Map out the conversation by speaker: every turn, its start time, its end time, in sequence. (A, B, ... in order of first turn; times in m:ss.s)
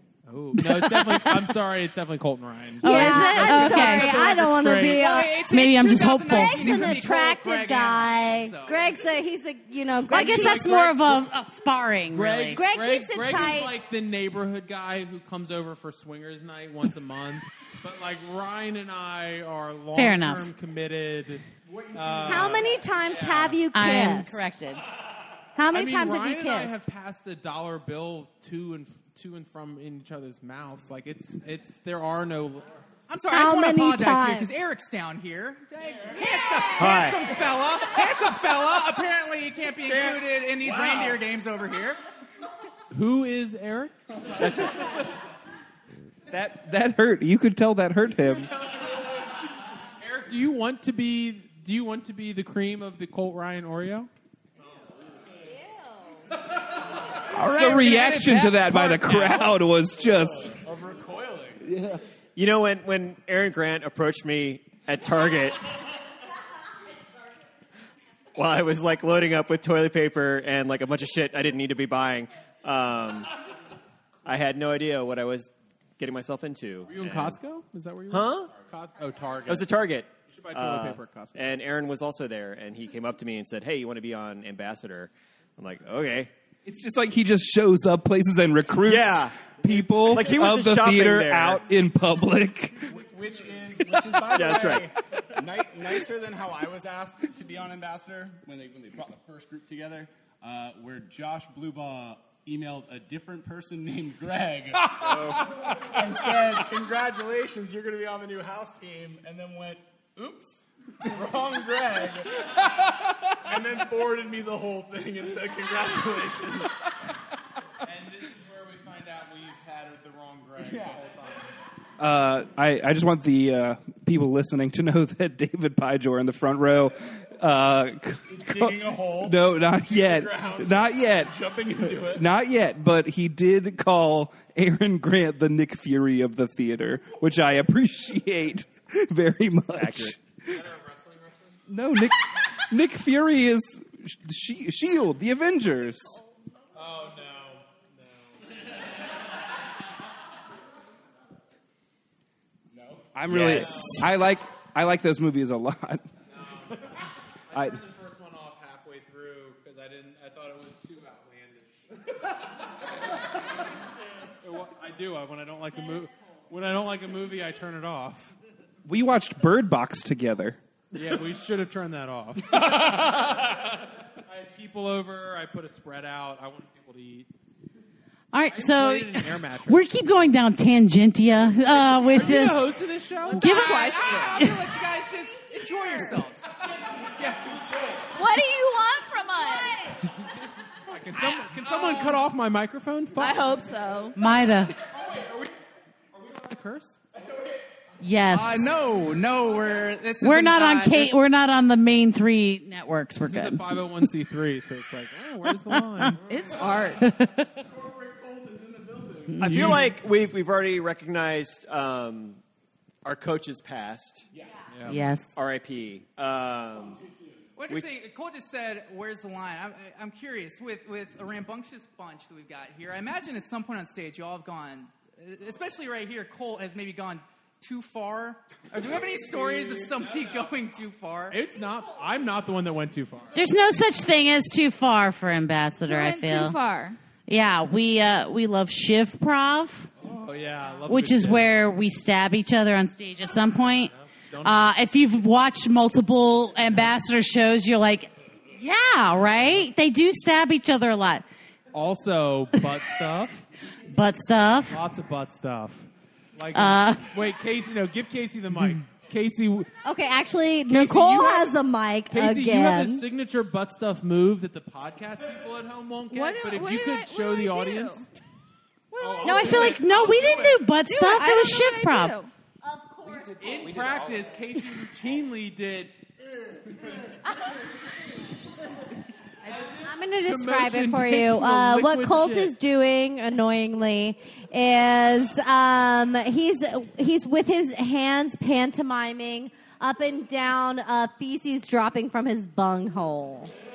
0:00.3-0:05.1 A
0:00.5-0:01.5 B
0:02.8-0:04.3 B
0:02.8-0:05.4 C
0:04.9-0:08.8 D
0:05.5-0:06.9 B
0:06.3-0:10.7 C
0:10.1-0:12.6 B
0:10.2-0:11.3 A
0:12.1-0:23.7 A
0:12.5-0:13.7 C
0:19.9-0:20.5 B
0:21.6-0:22.8 E
0:22.3-0:24.4 C
0:23.7-0:24.8 B
0:25.6-0:26.7 C
0:25.7-0:32.8 A
0:33.1-0:42.0 D
0:33.3-0:34.5 C
0:35.8-0:36.3 E
0:36.8-0:37.2 F
0:39.8-0:41.2 E
0:42.9-0:44.0 A
0:44.4-0:44.9 F
0:46.3-0:48.5 G
0:50.0-0:54.1 A
0:57.3-1:00.6 G
0:57.6-0:59.4 D
1:00.0-1:01.6 E
1:01.6-1:02.0 G
1:02.4-1:05.6 F
1:08.4-1:13.3 F
1:14.2-1:17.4 F
1:16.9-1:21.6 A
1:18.1-1:18.5 F
1:19.5-1:26.3 F
1:26.6-1:32.9 G
1:28.8-1:31.7 F
1:32.9-1:52.3 E
1:34.3-1:34.9 F
1:53.4-1:56.8 E
1:57.8-2:01.5 A
2:00.6-2:01.0 E
2:02.0-2:20.6 G
2:08.3-2:12.3 E
2:19.7-2:20.2 F
2:20.5-2:21.7 A
2:21.7-2:26.2 G
2:26.7-2:28.4 A
2:32.7-2:33.2 E
2:33.1-2:36.1 G
2:33.3-2:34.0 F
2:33.3-2:34.0 A
2:36.3-2:42.0 A
2:37.5-2:37.8 G
2:44.4-2:48.3 A
2:48.9-2:50.6 G
2:50.9-2:53.5 A
2:54.3-2:57.3 A
2:58.3-3:02.8 B
2:58.5-2:59.9 A
3:01.9-3:03.5 A
3:03.3-3:04.5 H
3:03.3-3:04.6 B
3:03.4-3:06.6 D
3:07.2-3:07.6 D
3:08.1-3:09.9 H
3:10.9-3:13.5 A
3:11.2-3:12.2 D
3:13.2-3:14.2 H
3:14.2-3:14.8 B
3:14.8-3:15.6 A
3:16.1-3:17.0 A
3:18.0-3:18.7 B
3:18.3-3:21.1 D
3:20.2-3:24.1 B
3:23.2-3:26.2 A
3:25.5-3:26.2 B
3:26.3-3:27.1 H
3:27.0-3:27.5 B
3:27.6-3:29.4 E
3:29.3-3:29.9 B
3:29.4-3:32.4 F
3:33.0-3:34.3 F
3:34.3-3:34.6 E
3:34.7-3:35.0 A
3:34.9-3:35.4 B
3:35.3-3:37.0 F
3:36.8-3:37.5 E
3:37.6-3:51.4 D
3:49.3-3:49.7 E
3:51.3-3:53.5 A
3:53.4-3:56.6 B
3:55.9-3:57.0 H
3:57.3-3:59.9 B
4:00.0-4:01.6 A
4:00.9-4:11.2 B
4:04.3-4:04.7 A
4:11.7-4:13.4 A
4:13.9-4:14.8 B
4:14.7-4:19.7 A
4:16.5-4:17.1 B
4:19.8-4:23.0 C
4:20.7-4:21.6 A
4:22.1-4:28.1 A
4:26.1-4:28.0 H
4:29.0-4:29.8 H
4:29.0-4:30.7 A
4:29.2-4:32.2 B
4:30.8-4:32.3 H
4:32.6-4:33.8 C
4:33.4-4:36.0 A
4:39.5-4:42.5 A
4:39.8-4:53.5 C